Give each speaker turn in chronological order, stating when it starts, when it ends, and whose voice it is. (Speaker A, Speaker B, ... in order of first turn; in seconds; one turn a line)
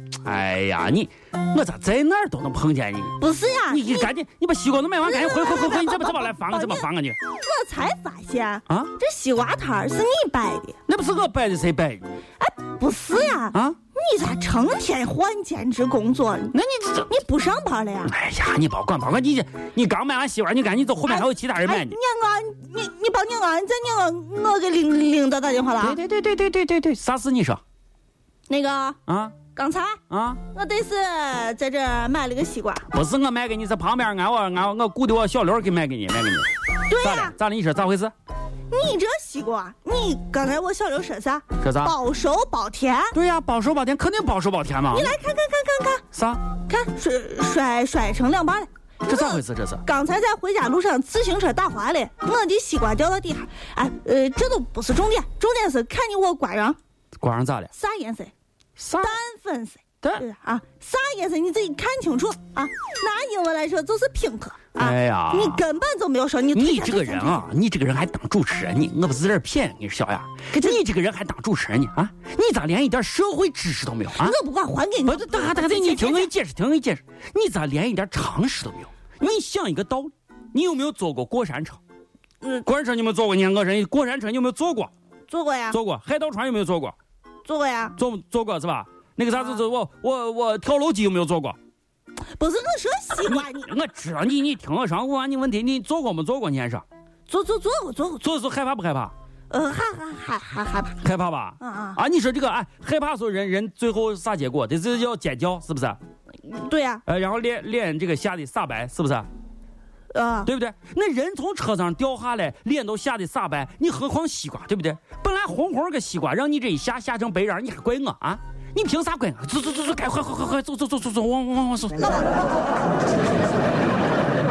Speaker A: 0.2-3.2
Speaker B: 3.2-4.1
Speaker A: 3.7-7.2
Speaker B: 5.0-10.8
Speaker A: 10.9-12.2
Speaker B: 12.4-16.5
Speaker A: 16.5-17.1
Speaker B: 17.1-18.1
Speaker A: 18.1-22.0
Speaker B: 21.1-26.0
Speaker A: 25.8-27.6
Speaker B: 28.5-29.0
Speaker A: 29.1-29.4
Speaker B: 29.5-30.0
Speaker A: 30.1-30.4
Speaker B: 30.5-32.9
Speaker A: 32.9-38.1
Speaker B: 36.9-37.3
Speaker B: 38.7-43.1
Speaker A: 41.6-41.9
Speaker A: 43.1-45.1
Speaker B: 44.9-46.0
Speaker A: 46.1-46.4
Speaker B: 46.6-56.8
Speaker A: 49.1-49.8
Speaker A: 57.2-57.7
Speaker B: 57.7-58.3
Speaker A: 58.8-59.2
Speaker B: 59.0-67.5
Speaker A: 64.8-65.6
Speaker A: 66.5-74.3
Speaker B: 70.5-70.8
Speaker B: 74.1-76.3
Speaker A: 75.1-81.8
Speaker A: 82.6-84.9
Speaker B: 85.3-85.8
Speaker A: 85.7-86.9
Speaker B: 87.4-88.0
Speaker A: 88.0-91.6
Speaker B: 92.3-93.7
Speaker A: 93.2-96.8
Speaker B: 97.3-98.2
Speaker A: 98.2-99.1
Speaker B: 99.5-101.0
Speaker A: 101.0-106.0
Speaker B: 101.6-102.0
Speaker B: 106.4-107.0
Speaker A: 107.0-109.3
Speaker B: 110.1-110.5
Speaker A: 110.5-122.2